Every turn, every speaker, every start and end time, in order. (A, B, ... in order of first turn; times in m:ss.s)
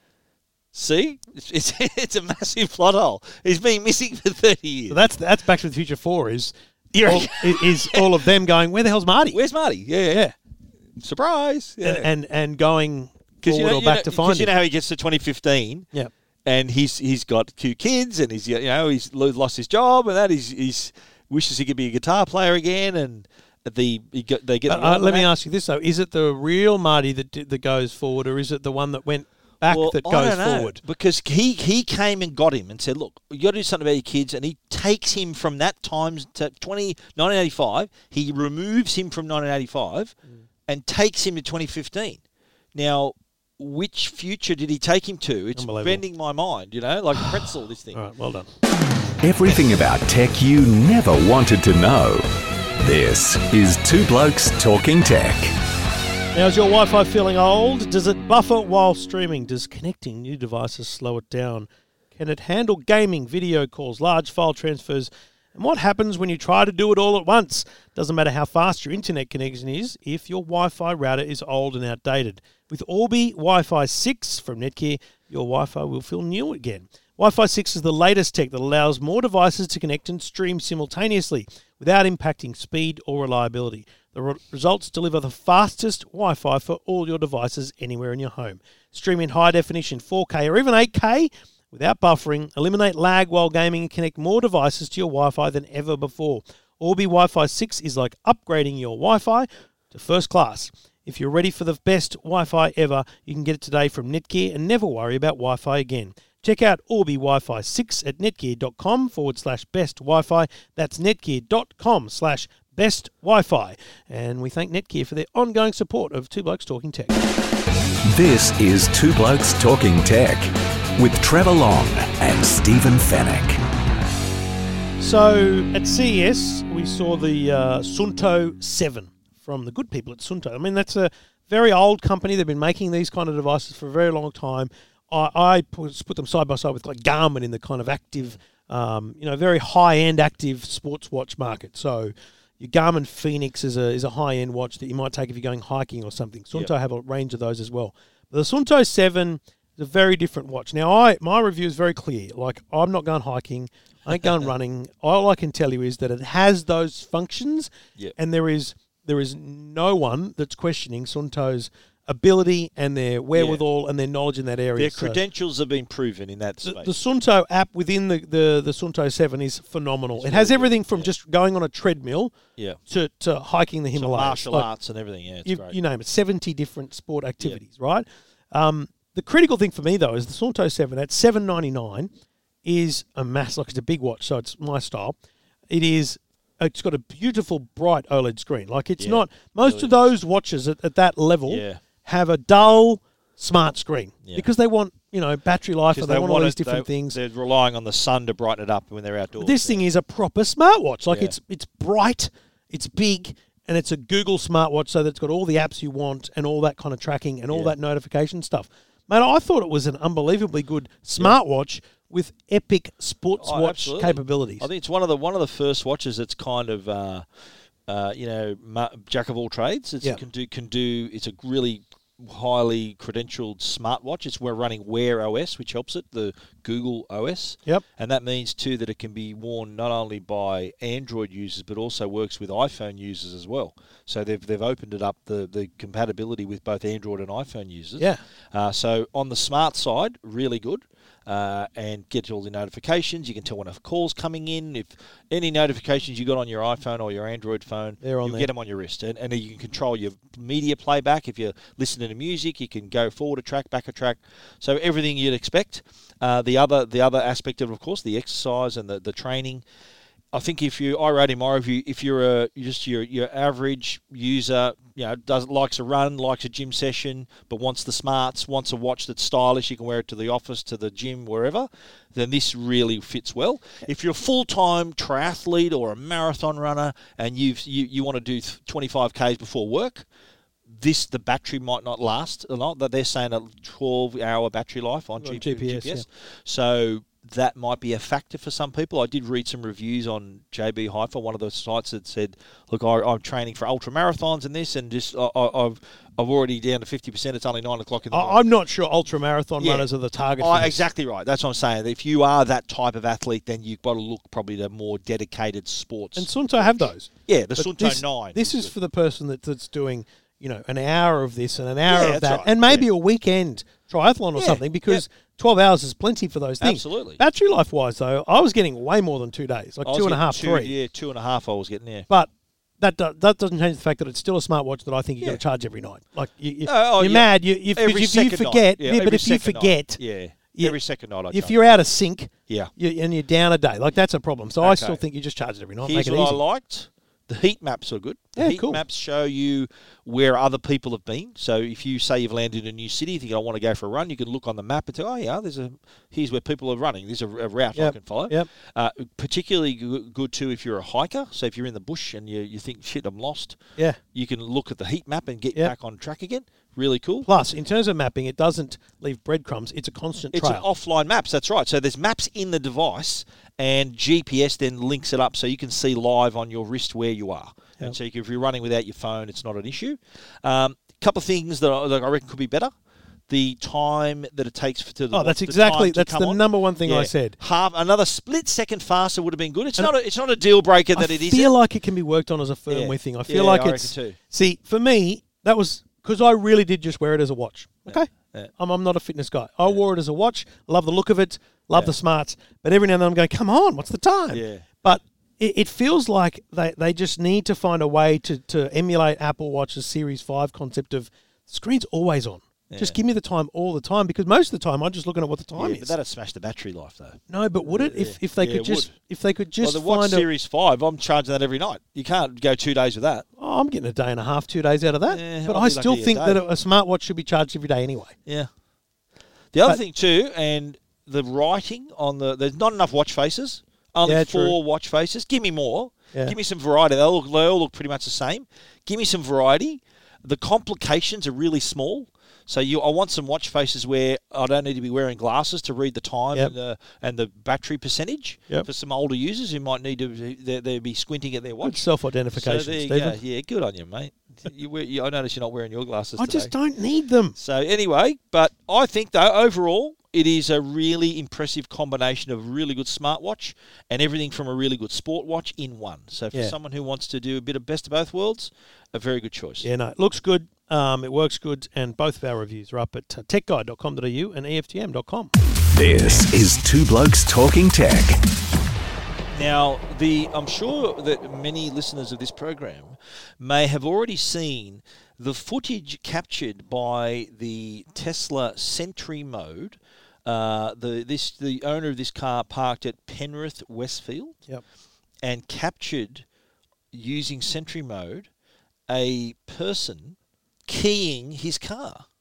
0:00.7-0:05.0 A
0:04.9-0:09.4 B
0:06.9-0:08.3 A
0:09.3-0:10.2 A
0:11.0-0:12.1 A
0:11.8-0:14.5 B
0:13.4-0:15.9 A
0:16.4-0:25.3 A
0:24.7-0:30.8 B
0:29.6-0:40.2 A
0:40.7-0:42.2 A
0:42.7-0:48.0 A
0:45.6-0:46.0 B
0:47.9-0:48.5 B
0:49.2-0:55.5 C
0:56.3-1:57.2 B
1:58.0-2:03.6 C
2:05.0-2:45.2 B
2:43.3-2:43.6 A
2:44.8-2:46.9 A
2:46.6-2:52.3 B
2:50.2-2:51.1 A
2:52.9-2:54.7 B
2:53.9-2:55.8 A
2:55.4-3:02.1 B
3:02.6-3:05.2 B
3:05.7-3:17.2 B
3:09.0-3:10.1 A
3:11.5-3:11.8 A
3:15.9-3:19.8 A
3:19.4-3:34.7 B
3:21.1-3:21.4 A
3:33.4-3:37.3 A
3:37.8-4:19.6 A
4:08.0-4:08.5 B
4:20.3-4:40.1 A
4:40.7-4:58.4 A
4:45.2-4:46.0 B
4:58.1-5:00.8 B
4:59.6-5:08.7 A
5:06.2-5:20.7 B
5:11.9-5:12.8 A
5:14.4-5:15.0 A
5:16.6-5:17.2 A
5:19.8-5:22.1 A
5:22.8-5:30.0 B
5:26.6-5:31.5 A
5:31.3-5:36.4 B
5:34.6-5:35.0 A
5:35.8-5:53.6 A
5:38.4-5:38.8 B
5:47.7-5:48.5 B
5:54.1-5:57.3 A
5:57.2-6:00.6 B
6:00.3-6:12.7 A
6:13.3-6:21.5 A
6:15.1-6:17.4 B
6:20.9-6:45.9 B
6:22.7-6:24.2 A
6:27.9-6:28.5 A
6:34.3-6:34.6 A
6:42.7-6:43.0 A
6:45.6-6:48.9 A
6:47.3-6:50.2 B
6:49.6-6:53.2 A
6:53.4-6:58.2 B
6:55.1-6:56.4 A
6:59.5-7:26.5 A
7:04.0-7:04.6 B
7:21.6-7:23.2 B
7:26.2-7:27.4 B
7:27.4-7:39.6 A
7:39.6-7:45.3 B
7:45.7-7:48.2 C
7:49.3-8:04.4 A
8:05.2-8:06.2 A
8:06.9-8:08.3 A
8:08.9-8:12.0 A